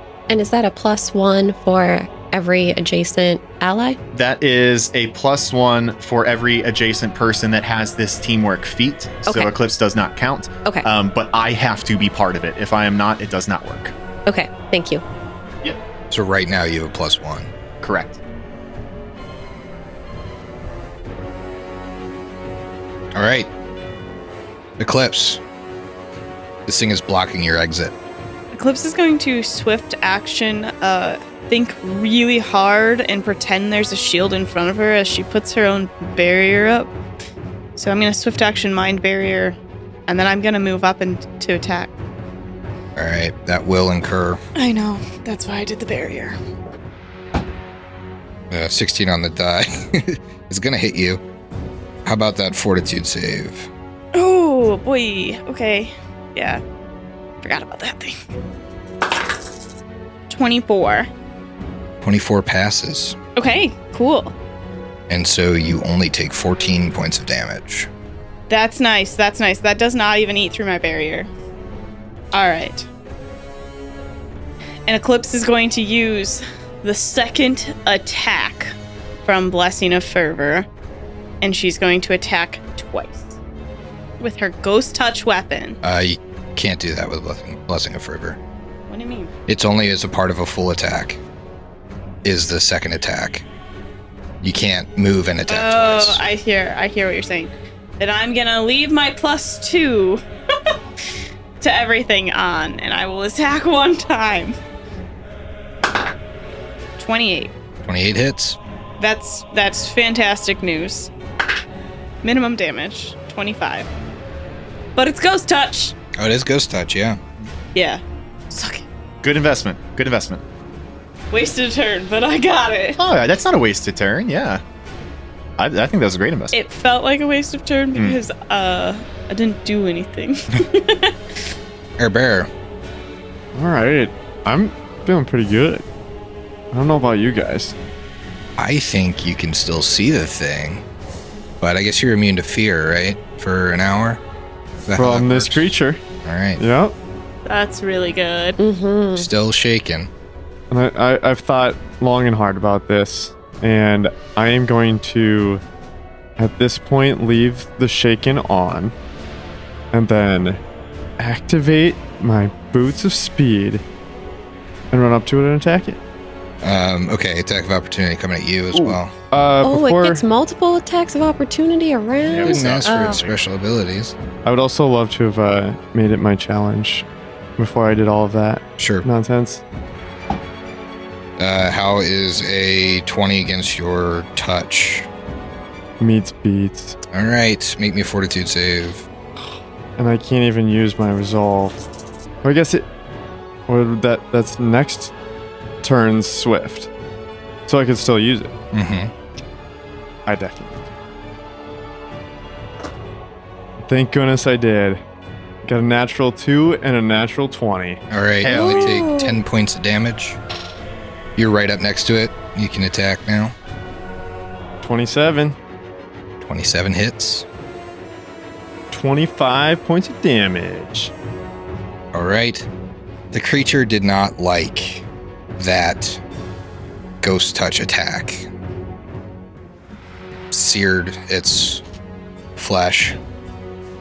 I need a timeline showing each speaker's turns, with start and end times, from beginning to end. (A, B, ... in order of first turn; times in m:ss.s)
0:00.3-0:04.0 A
0:04.1-0:13.9 B
0:09.3-0:09.5 A
0:14.3-0:15.0 A
0:16.1-0:17.5 C
0:17.8-0:18.2 B
0:23.1-0:23.5 C
0:24.8-0:25.4 C
0:26.6-0:27.9 C
0:28.5-0:36.9 D
0:37.8-0:41.9 D
0:43.0-0:44.4 C
0:44.6-0:46.4 D
0:48.5-0:51.2 C
0:52.0-0:53.7 C
0:54.1-0:56.6 D
0:57.4-0:58.2 D
1:00.3-1:01.1 D
1:02.0-1:03.2 C
1:03.4-1:04.3 D
1:05.1-1:07.9 C
1:08.5-1:11.3 D
1:12.3-1:12.8 D
1:14.9-1:20.7 D
1:21.4-1:23.4 D
1:24.2-1:25.8 D
1:25.8-1:28.4 C
1:28.9-1:29.3 D
1:29.5-1:31.2 C
1:32.2-1:33.4 C
1:34.4-1:36.2 C
1:35.5-1:40.2 D
1:41.6-1:44.6 D
1:47.0-1:47.5 D
1:47.8-1:48.6 C
1:49.0-1:51.1 D
1:52.2-1:53.9 D
1:55.0-1:56.0 D
1:56.2-1:57.2 C
1:57.7-1:58.8 D
1:59.2-2:00.4 B
2:01.3-2:03.0 D
2:03.0-2:04.6 B
2:05.6-2:06.6 B
2:06.5-2:11.1 D
2:12.0-2:12.5 C
2:13.5-2:15.8 E
2:16.7-2:17.8 E
2:18.6-2:20.8 C
2:21.6-2:24.2 C
2:24.8-2:25.7 C
2:25.0-2:26.0 E
2:26.2-2:26.6 C
2:26.6-2:26.9 E
2:27.5-2:28.6 D
2:28.6-2:29.3 A
2:29.2-2:30.1 C
2:30.7-2:35.6 E
2:36.4-2:38.9 E
2:39.9-2:40.6 E
2:41.2-2:43.8 E
2:44.9-2:46.0 E
2:46.6-2:49.1 C
2:48.7-2:50.2 E
2:49.6-2:53.2 A
2:52.2-2:53.4 B
2:52.3-2:54.1 C
2:54.4-2:57.0 E
2:57.6-2:59.6 E
2:58.8-2:59.0 C
3:01.4-3:05.1 C
3:06.0-3:07.0 E
3:07.1-3:09.1 C
3:10.0-3:11.8 E
3:12.4-3:12.8 E
3:13.7-3:15.1 E
3:15.8-3:16.9 E
3:17.7-3:18.5 E
3:18.7-3:19.1 C
3:20.2-3:20.9 E
3:23.8-3:25.0 E
3:25.6-3:28.0 E
3:28.1-3:30.4 C
3:28.4-3:29.0 B
3:28.4-3:29.4 A
3:31.4-3:33.5 C
3:34.8-3:35.6 E
3:36.4-3:37.4 C
3:38.9-3:41.1 E
3:42.1-3:42.7 C
3:43.3-3:45.0 C
3:45.6-3:46.2 C
3:47.2-3:48.5 C
3:50.5-3:51.8 C
3:52.6-3:53.2 C